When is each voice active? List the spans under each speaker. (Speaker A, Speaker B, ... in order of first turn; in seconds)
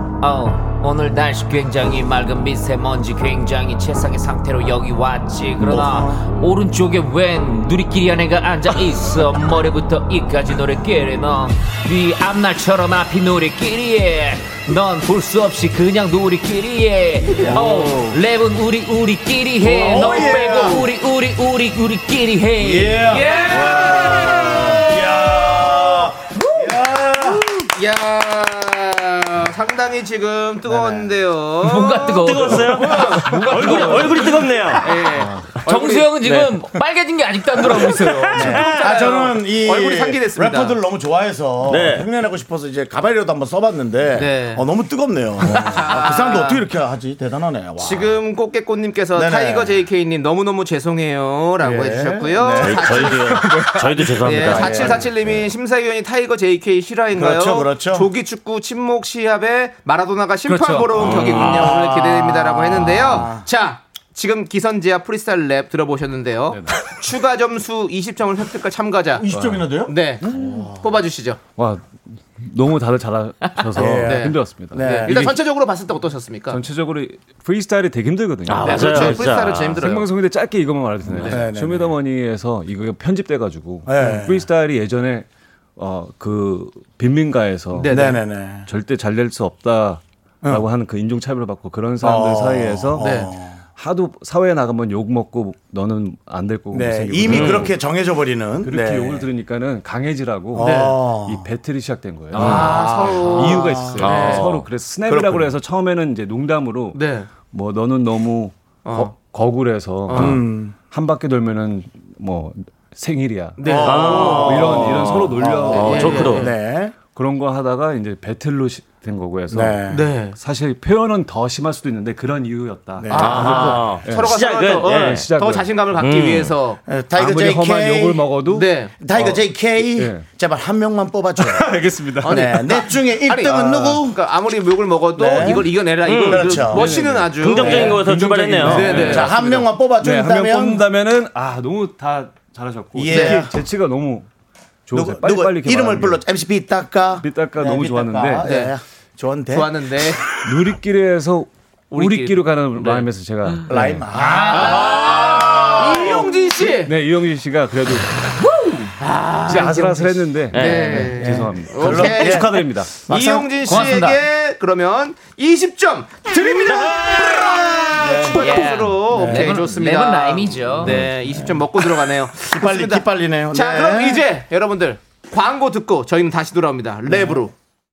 Speaker A: 0.2-24.1, 31.6-34.2, 35.7-38.5, 60.5-61.3, 102.3-103.0, 154.5-154.8, 160.6-161.0, 163.7-164.2, 168.4-171.0
Speaker B: 5.6-6.3, 17.2-18.2, 19.6-20.9, 22.6-27.4, 30.7-31.2, 38.3-48.2, 49.1-49.8, 51.6-53.6, 54.2-55.2, 57.1-58.1, 61.1-63.5, 69.2-70.8, 73.7-75.4, 81.2-82.0, 83.9-84.5, 87.9-88.7, 92.0-93.6, 96.7-99.2, 100.5-101.5, 102.4-104.4, 105.1-105.5, 110.1-110.8, 113.6-117.0, 119.5-120.0, 123.0-124.0, 126.9-128.4, 129.0-134.2, 135.2-136.9, 137.5-138.1, 138.9-140.8, 143.0-143.5, 144.9-149.8, 153.7-156.4, 161.2-162.5, 163.1-163.5, 166.8-169.6, 170.8-171.7, 172.3-174.2, 177.1-177.4
Speaker C: 19.9-20.8, 23.1-24.8, 27.2-34.3, 34.8-36.5, 38.4-40.8, 44.1-44.6, 45.5-46.6, 47.8-69.3, 69.9-71.4, 73.8-76.6, 78.6-80.1, 81.1-81.4, 87.8-88.2, 93.0-93.3, 100.6-100.9, 102.3-104.5, 106.9-107.3, 108.8-109.1, 110.1-110.4, 113.6-114.8, 115.6-116.5, 119.9-120.4, 123.1-126.8, 128.5-128.9, 132.2-138.0, 138.6-139.7, 143.1-143.4, 148.4-148.7, 149.5-150.2, 151.9-153.1, 154.1-156.9, 159.0-177.5
Speaker D: 32.2-34.9, 41.6-42.1, 52.6-55.1, 61.0-61.7, 78.5-79.9, 97.3-97.7, 104.0-104.6, 113.8-116.5, 123.1-125.3, 126.0-126.6, 136.0-136.6, 137.4-139.2
Speaker E: 66.5-66.8, 69.3-69.7, 71.6-75.3, 76.5-88.0, 88.7-93.1, 93.8-97.7, 98.6-116.4, 116.9-124.3, 125.0-125.8, 127.2-130.2, 131.4-132.5, 136.6-144.3, 144.9-146.2, 147.2-148.5, 150.4-154.1, 156.8-158.1, 159.5-162.9